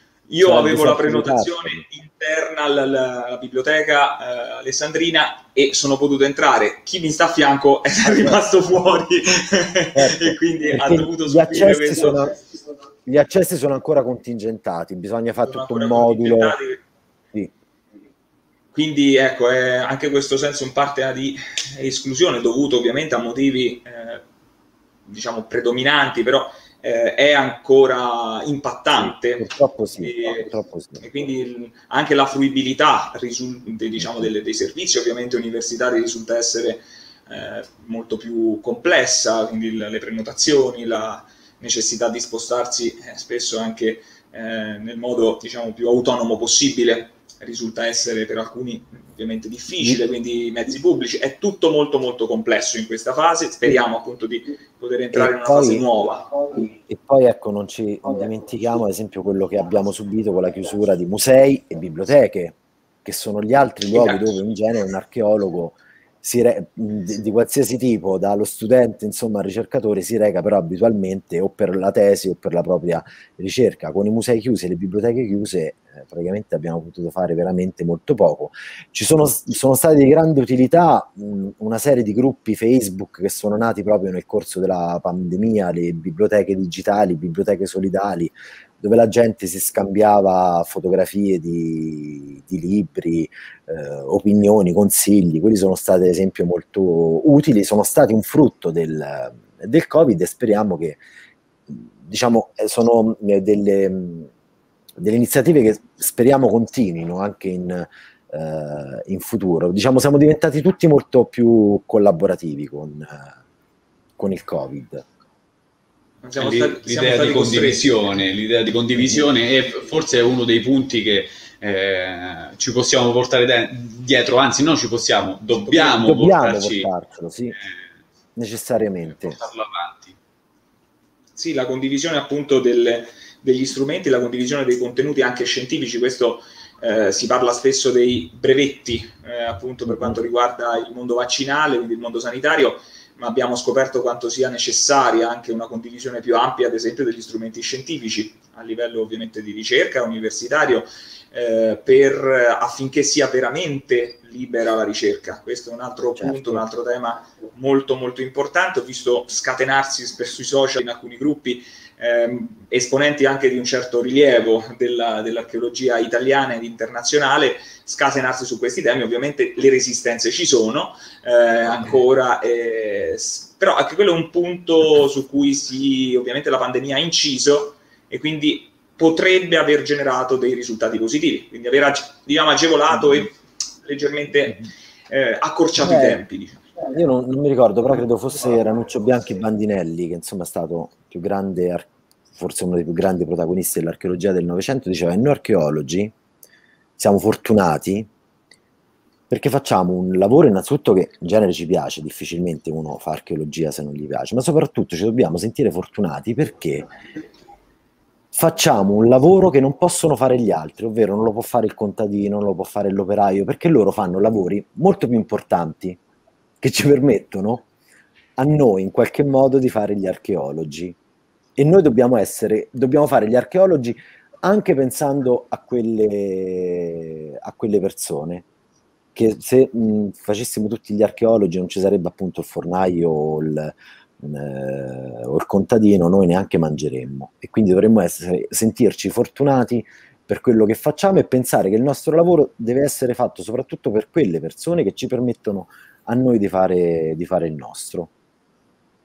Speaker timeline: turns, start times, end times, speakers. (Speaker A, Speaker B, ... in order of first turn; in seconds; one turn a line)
Speaker A: 0.3-12.2
Speaker B: 0.4-1.8
Speaker B: 8.0-8.4
Speaker B: 9.9-12.4
Speaker B: 13.0-16.6
Speaker A: 15.4-16.8
Speaker A: 18.7-24.2
Speaker A: 25.1-29.4
Speaker B: 28.9-31.3
Speaker A: 30.0-30.5
Speaker A: 31.0-56.3
Speaker B: 34.0-34.3
Speaker B: 55.1-101.0
Speaker A: 63.9-64.3
Speaker B: 101.7-104.3
Speaker B: 105.0-113.3
Speaker B: 114.2-115.0
Speaker A: 116.2-118.1
Speaker C: 116.4-126.9
Speaker B: 119.0-119.2
Speaker A: 125.6-126.1
Speaker B: 125.9-127.5
Speaker B: 128.3-129.4
Speaker C: 129.4-130.1
Speaker A: 131.3-186.6
Speaker B: 156.2-156.6
Speaker B: 185.8-186.2
Speaker B: 186.8-196.1
Speaker B: 197.0-198.1
Speaker B: 199.3-206.9
Speaker B: 208.3-216.0
Speaker B: 216.6-217.7
Speaker B: 218.4-220.9
Speaker B: 221.6-228.4
Speaker B: 229.1-248.1